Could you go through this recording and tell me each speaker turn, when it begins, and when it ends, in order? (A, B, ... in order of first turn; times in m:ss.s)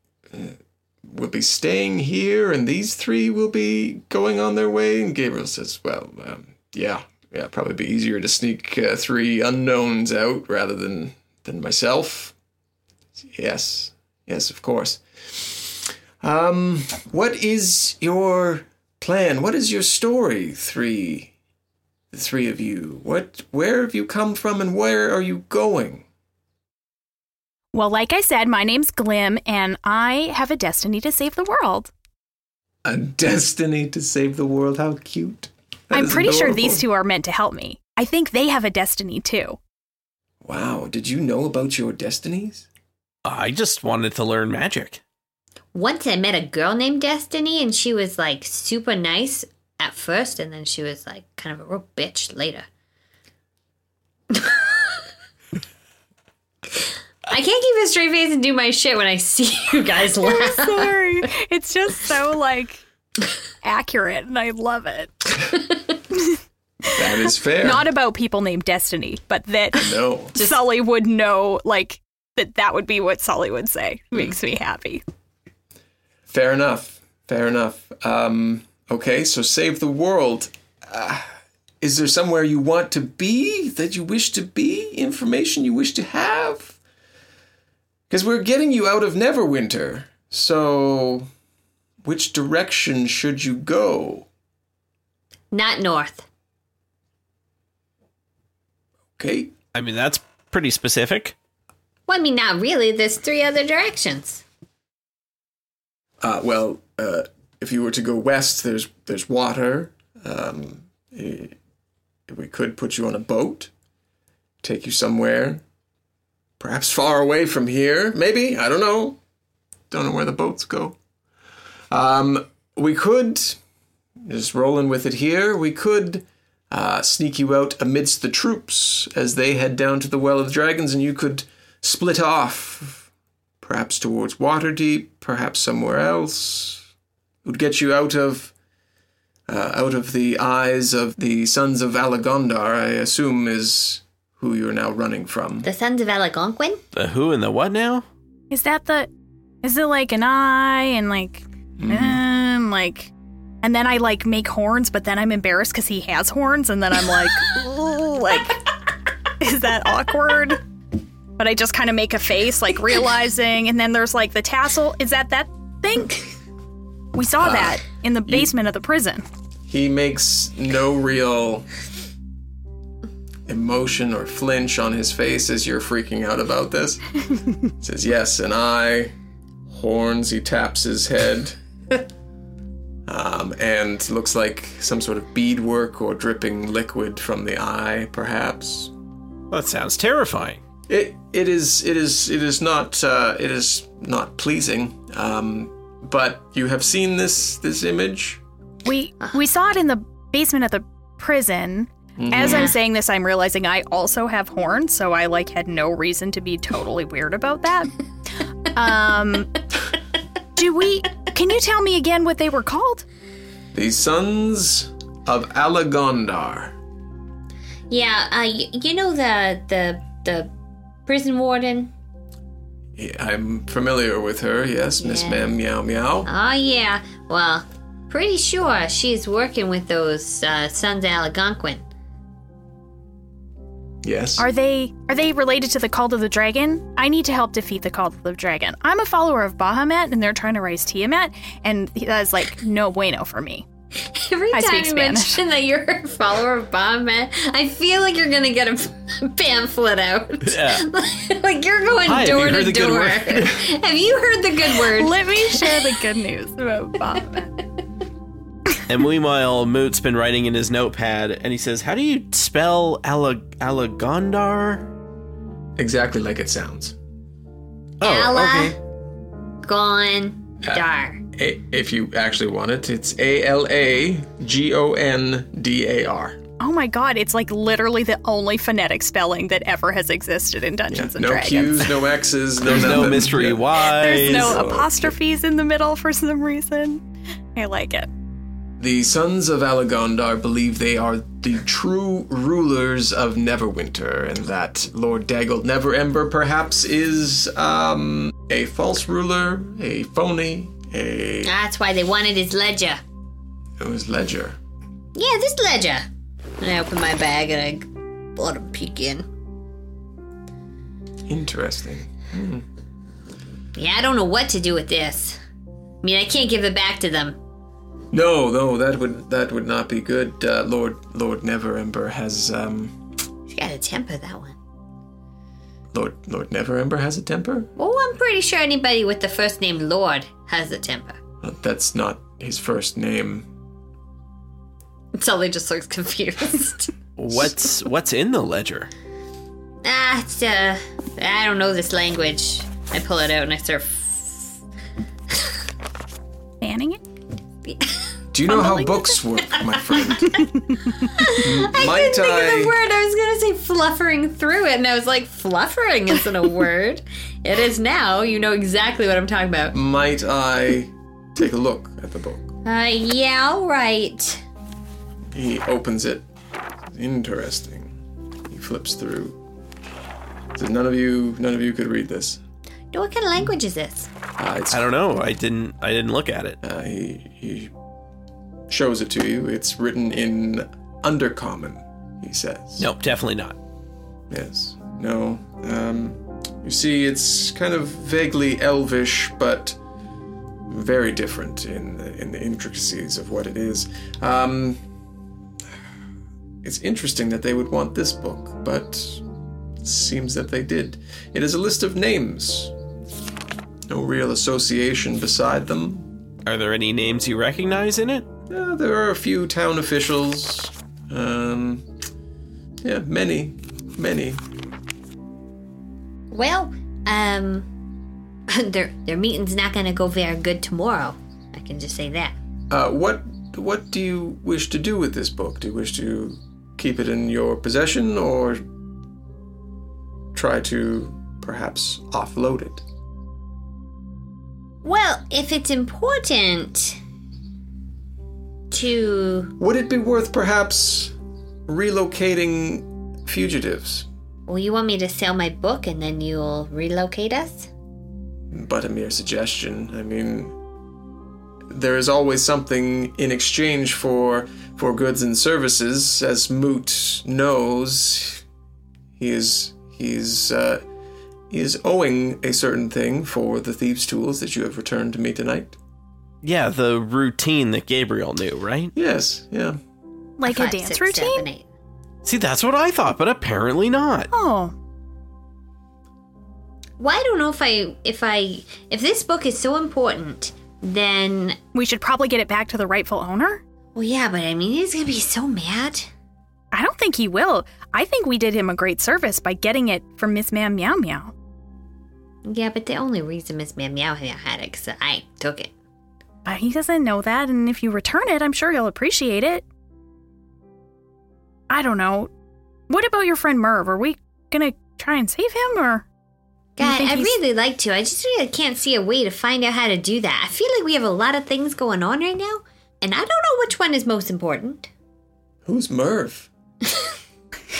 0:00.3-0:12.3 A
0:13.3-0:21.3 A
0:22.1-0:26.0 A
0:27.7-0:31.9 B
0:32.8-0:36.8 A
0:35.9-0:39.6 B
0:40.4-0:42.7 A
0:43.2-0:45.0 C
0:45.7-0:52.6 D
0:54.3-0:54.9 D
0:57.3-1:01.2 D
1:00.1-1:02.8 B
1:03.6-1:05.3 B
1:06.9-1:07.9 A
1:07.6-1:15.0 B
1:09.7-1:10.3 A
1:16.3-1:26.8 A
1:28.1-1:31.3 A
1:32.0-1:34.3 A
1:35.5-1:36.2 D
1:39.2-1:39.5 A
1:39.7-1:41.3 C
1:42.1-1:44.4 D
1:46.2-1:51.6 A
1:52.3-1:53.7 A
1:54.6-1:55.6 A
1:56.6-1:59.2 A
1:59.9-2:01.0 A
2:01.9-2:03.6 A
2:04.2-2:13.1 A
2:13.6-2:16.8 A
2:17.4-2:18.5 A
2:19.5-2:25.7 A
2:25.6-2:26.8 D
2:26.9-2:28.1 C
2:28.5-2:29.1 B
2:29.6-2:38.7 B
2:31.8-2:32.2 A
2:39.4-2:40.6 B
2:41.4-2:46.3 B
2:47.1-2:49.2 B
2:47.4-2:48.5 A
2:49.7-2:51.7 A
2:53.5-2:57.0 A
2:57.8-2:59.1 A
2:59.7-3:01.6 A
3:03.0-3:08.9 A
3:09.5-3:10.6 C
3:10.9-3:18.4 A
3:18.8-3:27.9 B
3:22.2-3:22.7 A
3:22.4-3:22.7 D
3:28.7-3:29.6 B
3:30.6-3:33.0 B
3:33.7-3:36.7 A
3:37.9-3:40.5 D
3:41.0-3:41.9 D
3:43.0-3:46.3 A
3:45.0-3:45.5 D
3:46.2-3:51.8 D
3:54.0-3:54.4 A
3:54.4-4:03.6 B
4:04.0-4:15.8 D
4:04.5-4:05.4 B
4:10.4-4:10.8 C
4:12.0-4:13.6 C
4:14.9-4:17.5 B
4:18.9-4:24.9 C
4:25.8-4:26.9 A
4:28.0-4:28.7 C
4:28.0-4:28.8 D
4:29.6-4:31.2 D
4:30.6-4:36.4 A
4:36.6-4:41.9 B
4:40.9-4:45.1 A
4:42.6-4:44.6 C
4:43.8-4:47.0 B
4:47.5-4:48.1 B
4:48.8-5:01.5 A
5:01.4-5:03.0 D
5:03.8-5:04.6 A
5:05.1-5:06.1 D
5:06.6-5:09.3 D
5:11.2-5:12.6 A
5:13.7-5:15.4 D
5:16.0-5:17.4 D
5:18.1-5:23.0 A
5:23.5-5:24.6 D
5:25.9-5:27.7 A
5:27.8-5:31.2 D
5:31.4-5:33.5 A
5:35.1-5:36.9 D
5:37.2-5:38.9 C
5:39.8-5:44.6 D
5:46.6-5:47.0 B
5:47.6-5:48.0 D
5:48.3-5:50.4 A
5:48.5-5:49.1 B
5:50.3-5:51.3 B
5:51.1-5:59.7 D
5:51.4-5:52.7 A
5:59.7-6:02.5 A
6:02.6-6:04.4 D
6:05.3-6:06.2 A
6:06.9-6:08.0 A
6:08.5-6:09.4 A
6:10.6-6:12.4 A
6:12.9-6:14.1 D
6:14.4-6:14.9 A
6:14.7-6:16.6 C
6:16.6-6:17.7 A
6:18.7-6:22.9 A
6:22.8-6:23.6 C
6:24.3-6:29.8 A
6:30.7-6:34.8 A
6:36.6-6:39.2 A
6:39.8-6:42.7 A
6:43.9-6:46.1 A
6:46.4-6:48.3 C
6:48.5-6:51.8 A
6:52.8-6:54.4 A
6:56.3-6:57.7 D
6:58.5-7:02.3 D
7:02.7-7:08.6 A
7:10.3-7:12.8 A
7:14.8-7:17.0 D
7:18.7-7:19.5 D
7:19.6-7:21.1 A
7:21.7-7:24.1 A
7:24.5-7:27.7 D
7:28.5-7:30.6 A
7:31.7-7:38.4 A
7:39.2-7:40.8 A
7:41.5-7:45.8 A
7:46.4-7:48.9 C
7:48.9-7:49.8 A
7:50.4-7:51.4 B
7:50.4-7:51.6 D
7:52.2-7:54.3 C
7:54.3-7:54.7 B
7:57.0-8:01.6 D
8:01.7-8:03.6 B
8:03.9-8:06.1 D
8:06.7-8:11.3 B
8:12.4-8:15.7 D
8:16.4-8:19.6 B
8:21.7-8:22.3 B
8:22.9-8:26.0 B
8:26.8-8:34.9 D
8:26.8-8:27.3 B
8:35.6-8:36.5 A